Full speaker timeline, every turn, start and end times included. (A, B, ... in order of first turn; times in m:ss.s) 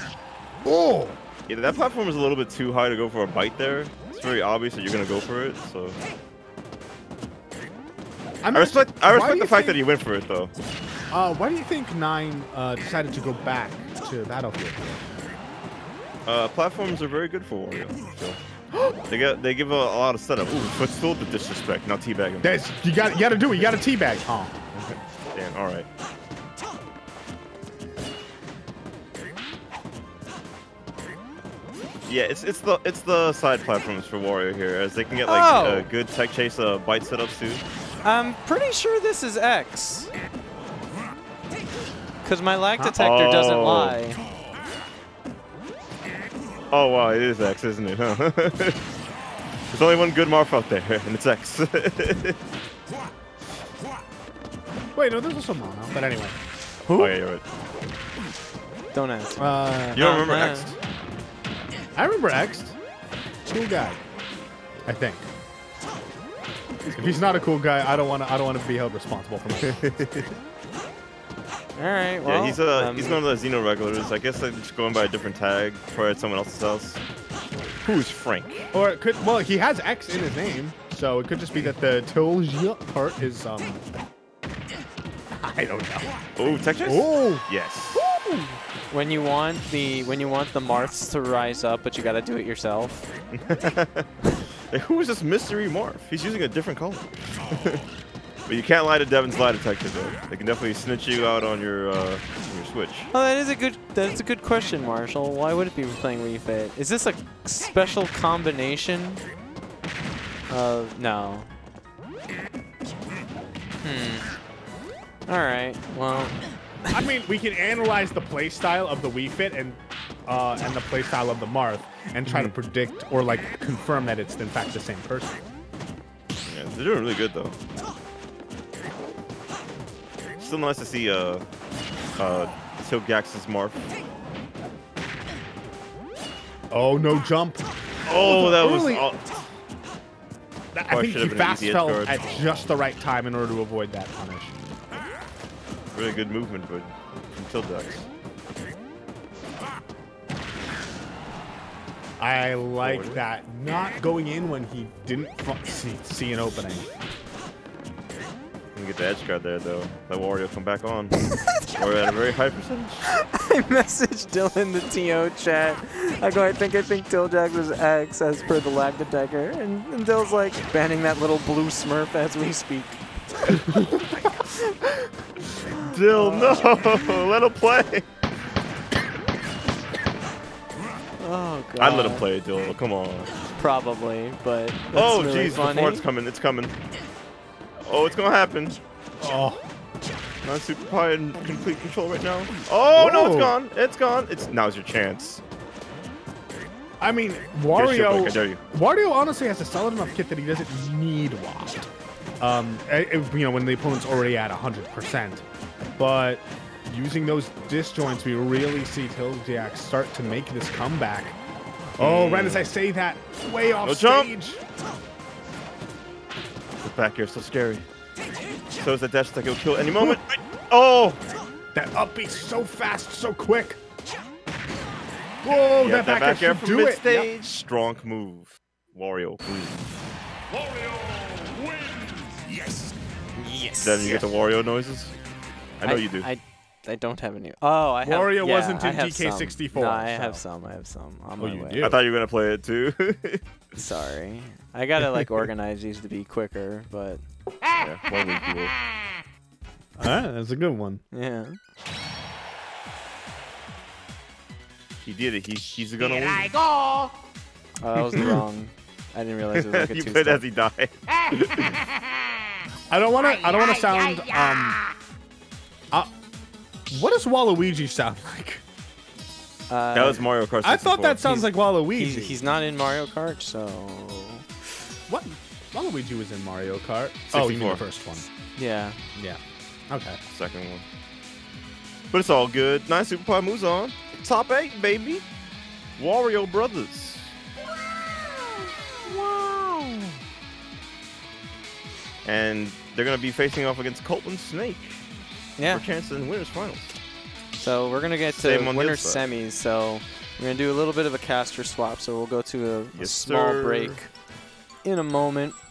0:00.6-0:01.2 A
0:01.5-0:06.0 B
0:08.4-0:09.8 A
0:08.5-0:10.5 B
0:11.1-0:15.0 A
0:16.2-0:18.4 B
0:18.7-0:19.0 A
0:19.0-0:22.6 B
0:22.4-0:24.6 A
0:24.7-0:25.9 B
0:32.0-0:37.6 B
0:35.2-0:35.9 C
0:38.0-0:40.1 C
0:42.2-0:44.2 C
0:43.0-0:44.0 B
0:46.7-0:48.8 B
0:49.7-0:52.4 B
0:54.9-0:56.4 A
0:56.8-0:57.2 C
0:56.9-0:57.4 B
0:58.9-1:00.7 C
0:59.4-1:00.1 A
0:59.9-1:00.8 B
1:02.0-1:02.8 A
1:03.4-1:04.0 A
1:04.8-1:05.3 A
1:06.9-1:10.2 A
1:07.0-1:07.4 B
1:11.8-1:13.2 C
1:12.2-1:17.0 B
1:17.8-1:18.7 B
1:18.7-1:23.8 A
1:25.3-1:26.1 A
1:26.4-1:28.0 B
1:26.8-1:27.5 A
1:28.1-1:33.1 C
1:33.3-1:34.1 B
1:34.7-1:37.8 B
1:38.5-1:43.1 B
1:43.1-1:49.2 C
1:50.5-1:51.5 C
1:53.8-1:54.3 C
1:55.3-1:57.0 C
1:56.9-2:05.4 A
2:02.3-2:02.5 B
2:06.4-2:07.6 B
2:10.4-2:11.4 B
2:12.2-2:13.9 B
2:16.7-2:19.1 A
2:18.0-2:19.2 B
2:20.7-2:24.5 A
2:20.9-2:22.6 B
2:25.9-2:28.1 B
2:32.2-2:36.9 A
2:32.8-2:33.2 B
2:38.7-2:43.1 B
2:43.2-2:55.1 C
2:53.6-2:54.0 A
2:55.6-2:57.2 C
2:55.8-2:58.0 B
3:01.2-3:02.2 C
3:01.8-3:03.3 B
3:03.6-3:06.0 C
3:04.9-3:06.8 B
3:07.8-3:08.8 B
3:09.2-3:09.6 A
3:10.4-3:15.4 B
3:12.9-3:13.5 A
3:17.0-3:25.4 A
3:17.7-3:18.6 B
3:26.0-3:31.4 A
3:32.0-3:34.6 A
3:32.0-3:32.7 B
3:33.8-3:34.3 B
3:36.8-3:37.8 B
3:38.8-3:41.2 B
3:39.9-3:40.2 A
3:41.7-3:43.8 A
3:45.4-3:47.3 A
3:45.8-3:49.9 B
3:53.4-3:54.3 C
3:53.8-3:55.1 B
3:55.8-3:56.3 B
3:55.8-4:01.9 C
3:58.0-4:00.4 A
4:01.4-4:02.0 A
4:01.8-4:03.4 B
4:03.8-4:07.2 C
4:07.8-4:08.7 B
4:10.0-4:11.0 A
4:11.1-4:11.6 C
4:15.0-4:16.6 B
4:17.8-4:20.4 C
4:19.5-4:21.8 B
4:22.9-4:24.8 A
4:26.9-4:28.6 A
4:29.7-4:30.2 C
4:29.9-4:31.3 B
4:30.6-4:32.4 A
4:31.2-4:34.4 C
4:35.1-4:38.3 A
4:37.3-4:37.8 B
4:38.6-4:39.0 C
4:39.9-4:40.2 A
4:40.3-4:40.8 B
4:42.1-4:45.2 B
4:46.0-4:47.3 B
4:49.1-4:49.9 C
4:52.2-4:55.0 B
4:55.6-4:55.8 C
4:55.7-4:56.9 B
4:57.6-5:04.1 C
4:58.3-4:59.2 B
5:02.9-5:04.0 B
5:04.8-5:05.6 C